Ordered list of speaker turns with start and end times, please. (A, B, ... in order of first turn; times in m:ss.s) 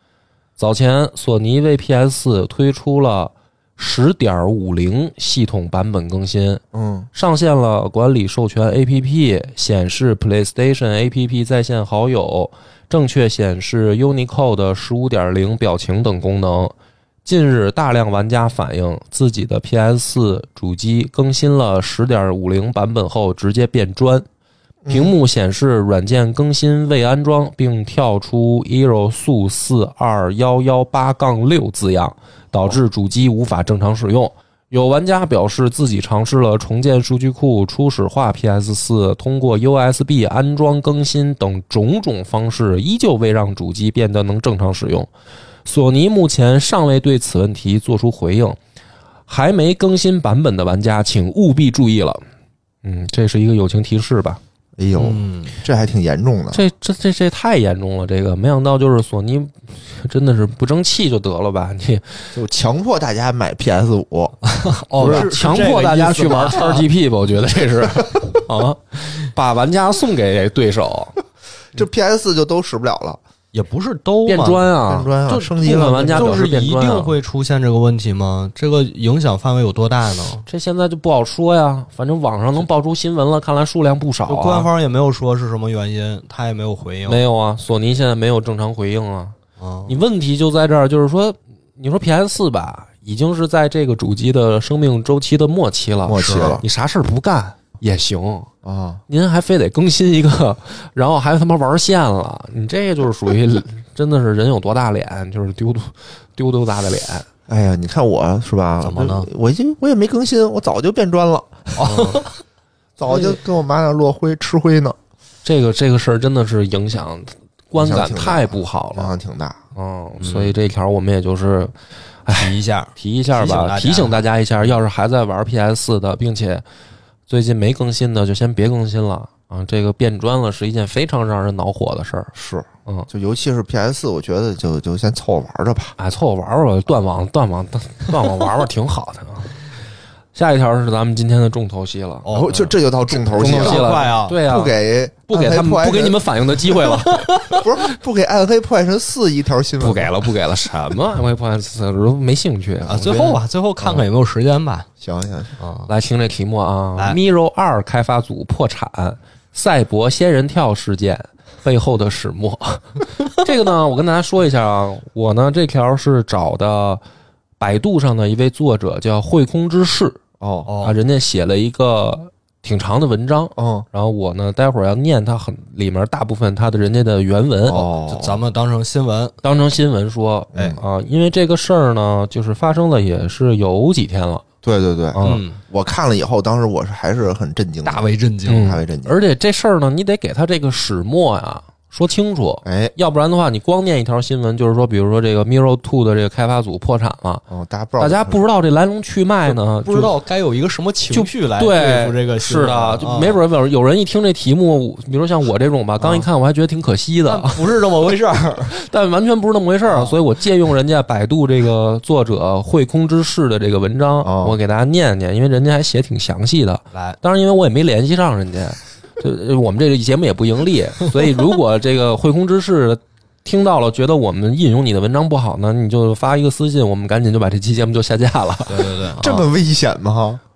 0:00.6-0:06.6 A
0:06.7-0:07.1 B
0:07.1-0:16.7 A
0:17.2-0:24.2 A
0:24.8-0:25.1 B
0:24.9-0:45.1 A
0:45.6-0:48.6 A
0:49.3-0:52.2 A
0:52.8-0:54.4 A
0:54.8-0:56.6 B
0:55.0-0:55.6 C
0:56.5-1:02.3 A
1:02.3-1:04.4 B
1:04.4-1:06.8 C
1:04.9-1:05.6 B
1:05.0-1:11.2 A
1:08.0-1:08.4 B
1:11.7-1:13.2 B
1:13.5-1:14.7 C
1:14.2-1:17.1 A
1:14.9-1:16.5 B
1:15.3-1:20.5 C
1:20.5-1:24.7 A
1:24.3-1:27.2 C
1:27.0-1:29.3 A
1:29.6-1:30.0 C
1:29.9-1:38.5 A
1:36.1-1:36.6 B
1:36.2-1:36.6 C
1:38.6-1:39.0 B
1:39.1-1:47.2 A
1:47.5-1:51.5 B
1:48.8-1:49.3 C
1:51.8-1:52.3 C
1:51.8-1:52.3 A
1:53.0-1:55.0 B
1:53.1-1:53.4 A
1:55.4-1:59.1 A
1:57.7-1:59.6 B
1:59.7-2:01.7 A
2:00.2-2:00.5 C
2:02.2-2:06.6 A
2:02.3-2:04.2 C
2:07.3-2:12.3 A
2:12.3-2:16.0 B
2:16.0-2:19.5 A
2:20.3-2:22.3 A
2:22.2-2:24.4 C
2:22.3-2:26.2 B
2:23.4-2:24.8 A
2:25.3-2:27.6 A
2:27.0-2:27.6 C
2:27.5-2:30.1 B
2:29.8-2:33.2 A
2:32.9-2:34.9 C
2:33.0-2:33.4 B
2:35.0-2:35.5 B
2:35.6-2:35.9 C
2:35.9-2:47.0 A
2:47.6-2:50.2 A
2:50.4-2:50.7 B
2:50.6-2:51.0 C
2:50.8-2:57.9 A
2:53.6-2:53.8 B
2:57.7-2:58.4 B
2:58.1-2:59.3 C
2:59.4-3:04.4 A
3:00.5-3:00.8 B
3:04.6-3:09.2 B
3:05.1-3:05.4 A
3:05.2-3:05.6 C
3:07.8-3:08.7 C
3:08.5-3:17.4 A
3:12.6-3:12.9 B
3:17.5-3:18.4 B
3:18.0-3:20.1 A
3:19.5-3:23.4 C
3:21.1-3:27.8 A
3:26.0-3:26.2 C
3:27.2-3:28.7 C
3:28.6-3:49.3 A
3:29.9-3:30.2 C
3:34.2-3:34.6 B
3:36.9-3:37.2 C
3:48.7-3:49.4 C
3:49.2-3:50.4 B